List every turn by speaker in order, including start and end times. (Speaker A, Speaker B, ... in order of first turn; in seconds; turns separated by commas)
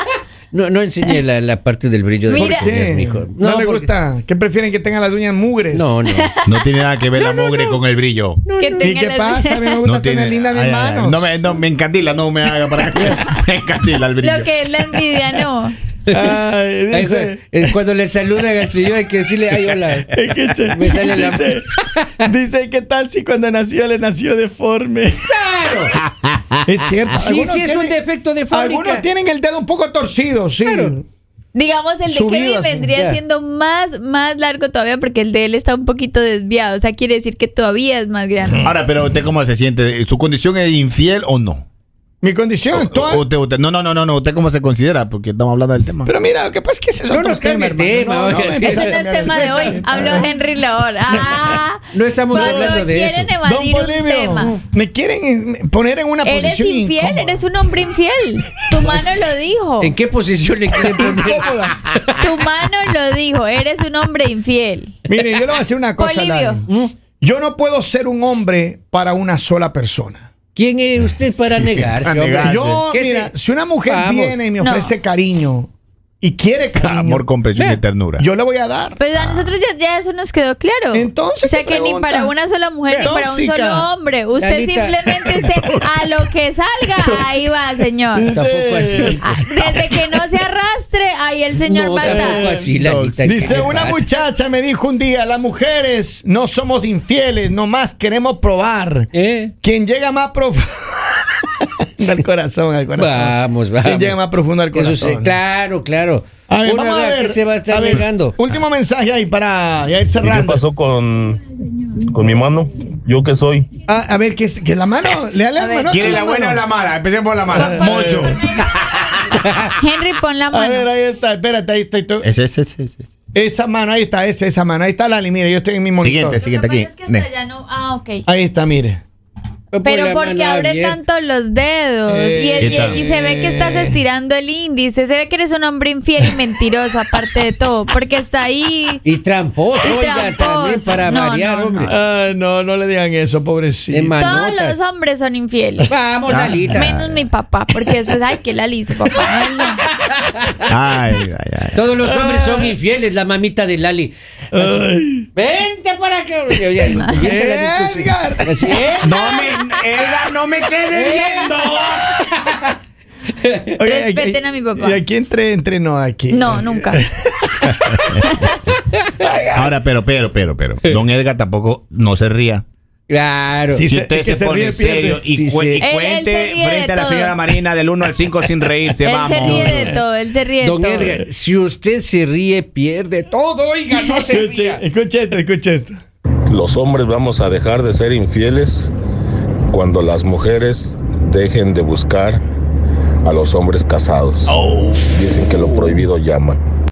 Speaker A: 0.5-3.9, Speaker B: 2.2-2.7, Speaker C: 2.3-5.9, Speaker A: 5.7-6.3, Speaker B: 6.1-6.7, Speaker D: 6.4-8.4, Speaker A: 7.2-7.8, Speaker A: 8.4-8.9, Speaker B: 8.6-9.8, Speaker C: 8.8-11.3, Speaker D: 9.8-14.5, Speaker B: 14.2-15.8, Speaker A: 16.1-16.4, Speaker C: 16.1-17.7, Speaker A: 16.9-22.2, Speaker C: 20.1-21.7, Speaker C: 22.2-25.3, Speaker A: 25.2-26.6, Speaker C: 26.6-27.9, Speaker A: 27.1-29.1, Speaker C: 28.5-31.1, Speaker A: 30.6-30.9, Speaker B: 31.5-38.7, Speaker C: 32.0-32.9, Speaker A: 32.9-33.2, Speaker C: 38.4-38.7, Speaker D: 38.6-41.6, Speaker C: 42.2-43.2, Speaker D: 42.7-46.1, Speaker C: 46.0-50.3, Speaker A: 47.1-49.5, Speaker B: 48.6-54.5, Speaker C: 51.1-51.6, Speaker A: 51.9-53.3, Speaker C: 52.3-52.8, Speaker C: 53.4-57.5, Speaker B: 56.2-59.9, Speaker C: 58.7-59.3, Speaker A: 59.8-62.3, Speaker C: 60.8-61.8, Speaker B: 62.2-64.9, Speaker C: 65.1-66.7, Speaker B: 66.0-66.6, Speaker A: 66.7-66.9, Speaker C: 67.2-70.3, Speaker A: 70.5-74.4, Speaker D: 71.4-72.8, Speaker C: 72.4-75.7, Speaker B: 74.6-74.9, Speaker C: 76.2-77.3, Speaker D: 76.8-78.2, Speaker A: 77.5-77.8, Speaker C: 78.2-79.0, Speaker B: 79.0-88.3, Speaker D: 79.1-79.5, Speaker C: 80.9-82.3, Speaker C: 83.0-83.9, Speaker A: 84.4-85.0, Speaker C: 85.2-85.9, Speaker C: 87.0-87.5, Speaker C: 88.1-90.2, Speaker A: 88.3-89.9, Speaker B: 89.2-92.5, Speaker A: 91.6-94.1, Speaker C: 92.0-99.1, Speaker A: 99.1-99.5, Speaker C: 99.6-105.3, Speaker A: 103.0-104.2, Speaker A: 104.7-108.3, Speaker C: 106.5-110.6, Speaker E: 110.2-111.4, Speaker E: 111.9-113.7, Speaker C: 113.8-116.7, Speaker B: 115.5-116.3, Speaker D: 115.9-119.4, Speaker C: 117.5-118.4, Speaker B: 117.5-119.1, Speaker B: 119.7-120.9, Speaker C: 120.5-122.2, Speaker D: 122.2-123.1, Speaker C: 123.3-126.4, Speaker D: 126.0-127.2, Speaker B: 126.4-128.2, Speaker C: 128.2-129.0, Speaker A: 129.7-131.0, Speaker B: 129.8-139.0, Speaker C: 132.1-134.0, Speaker D: 132.6-133.0, Speaker A: 139.0-141.9, Speaker B: 139.8-141.9, Speaker C: 141.9-144.3, Speaker A: 143.9-144.8, Speaker B: 144.2-145.9, Speaker A: 145.9-146.9, Speaker D: 146.3-147.2, Speaker B: 146.7-149.8, Speaker A: 149.2-150.6, Speaker D: 150.7-151.9, Speaker A: 151.7-159.4, Speaker C: 152.0-152.7, Speaker C: 154.5-155.3, Speaker C: 156.8-158.8, Speaker D: 159.0-161.8, Speaker B: 159.1-159.8, Speaker A: 160.9-162.6, Speaker C: 161.2-162.0, Speaker C: 163.8-168.3, Speaker B: 163.8-165.0, Speaker B: 166.3-167.0, Speaker D: 167.7-168.5, Speaker C: 169.1-169.7, Speaker D: 169.5-172.6, Speaker A: 173.1-173.9, Speaker C: 173.7-175.3, Speaker D: 173.9-179.9, Speaker A: 175.3-175.8, Speaker B: 175.8-177.4, Speaker B: 179.0-181.1, Speaker A: 179.4-179.9, Speaker A: 180.6-184.8, Speaker C: 184.1-186.0, Speaker E: 186.5-188.9, Speaker E: 189.7-192.4, Speaker E: 193.2-194.6, Speaker C: 194.4-195.4, Speaker E: 195.1-196.6